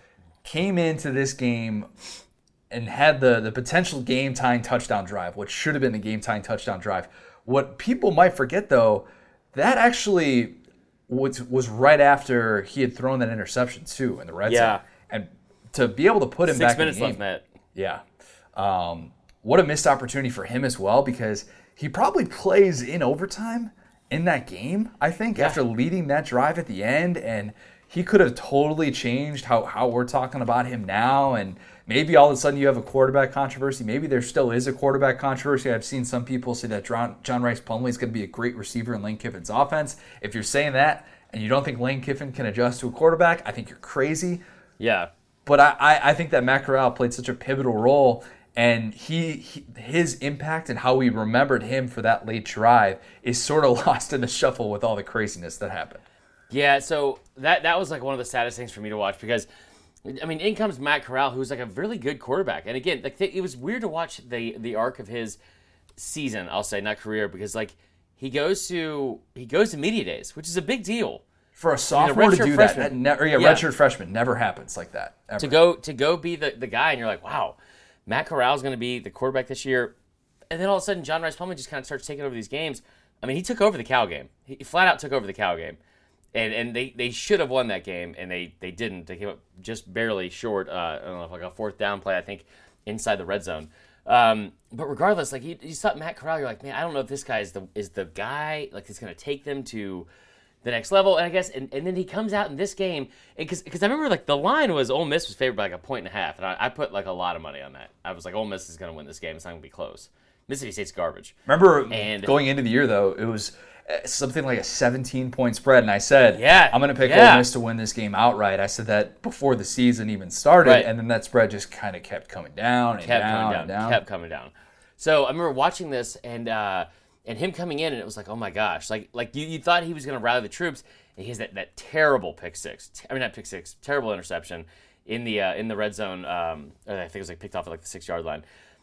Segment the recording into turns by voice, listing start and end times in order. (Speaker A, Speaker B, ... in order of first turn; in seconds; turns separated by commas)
Speaker A: 0.4-1.9, Speaker A: 2.7-17.2, Speaker B: 14.4-14.8, Speaker B: 16.4-17.4, Speaker A: 17.8-18.0, Speaker A: 18.6-44.4, Speaker B: 25.4-25.6, Speaker B: 44.8-45.1, Speaker A: 45.5-56.0, Speaker B: 56.5-59.5, Speaker B: 60.0-65.4, Speaker B: 66.0-71.2, Speaker A: 71.6-75.6, Speaker B: 72.0-73.7, Speaker B: 75.4-77.6, Speaker B: 78.1-79.9, Speaker B: 80.5-85.8, Speaker B: 86.3-100.1, Speaker B: 100.6-111.3, Speaker A: 111.5-124.0, Speaker B: 111.9-112.4, Speaker B: 116.3-117.5, Speaker B: 120.6-120.9, Speaker B: 123.0-138.4